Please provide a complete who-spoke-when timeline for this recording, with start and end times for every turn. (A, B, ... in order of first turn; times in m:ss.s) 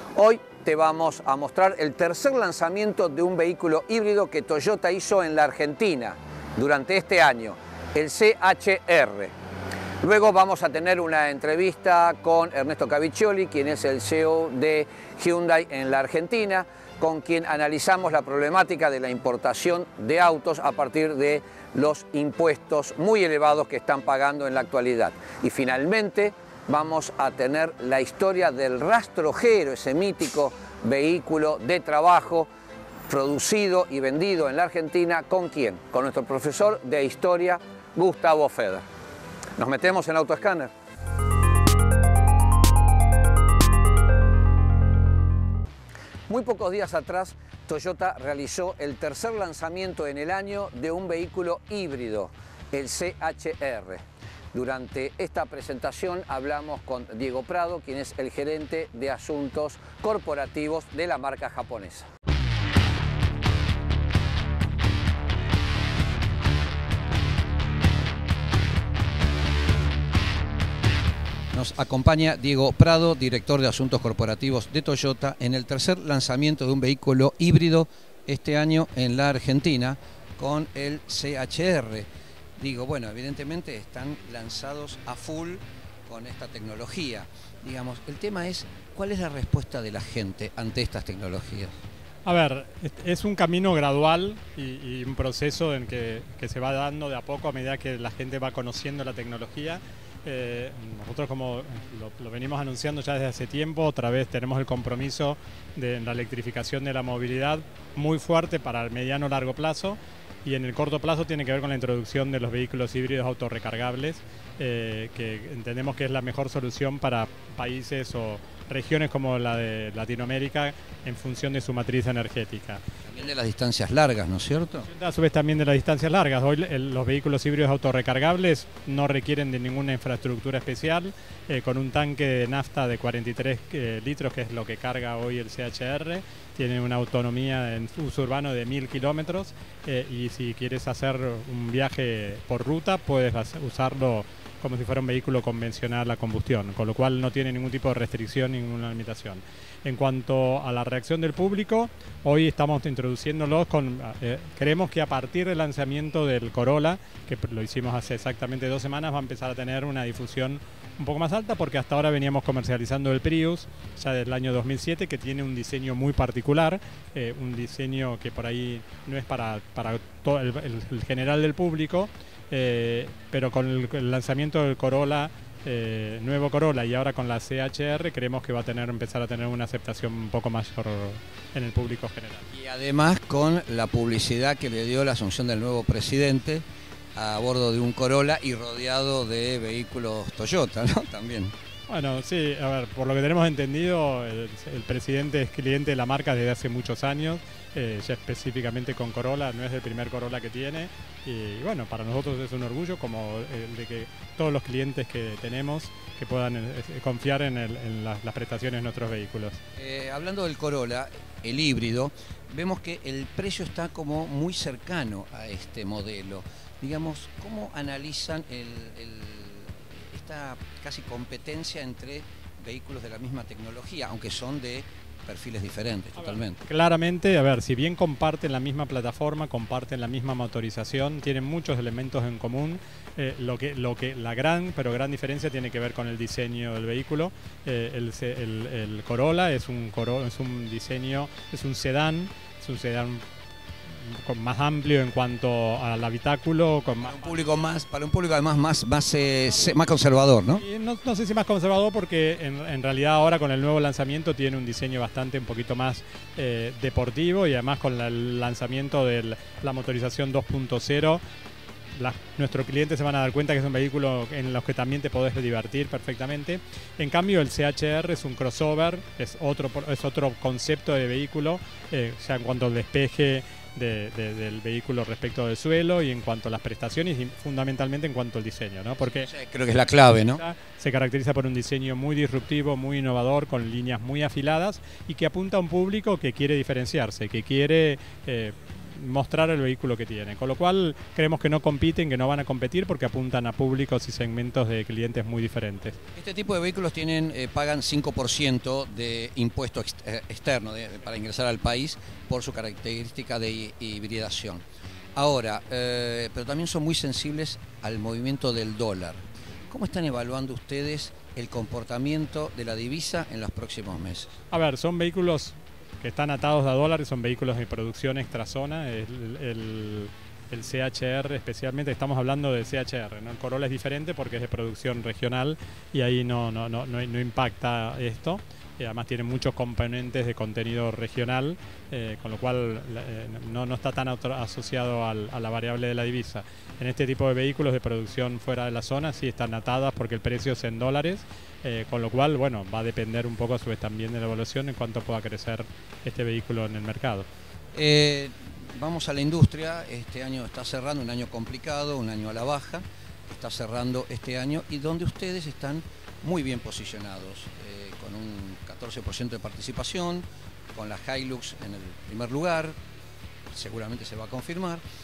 0:00.1-0:09.3 A
0:10.0-0:32.5 A
0:33.1-0:38.8 A
0:39.6-0:40.7 A
0:46.3-1:02.1 A
1:11.5-1:31.8 A
1:32.2-2:02.8 B
2:03.0-2:04.9 A
2:04.8-3:02.5 B
3:02.5-3:11.5 A
3:11.9-3:29.6 B
3:29.8-3:46.6 A
3:46.2-4:03.2 B
4:03.9-4:07.6 B
4:07.0-4:10.6 A
4:10.5-4:21.2 B
4:21.9-4:39.3 B
4:39.1-4:40.4 A
4:40.2-4:56.0 B
4:56.2-5:04.6 A
5:05.2-5:14.3 A
5:14.5-5:47.3 B
5:47.7-6:02.7 A
6:03.5-6:04.8 A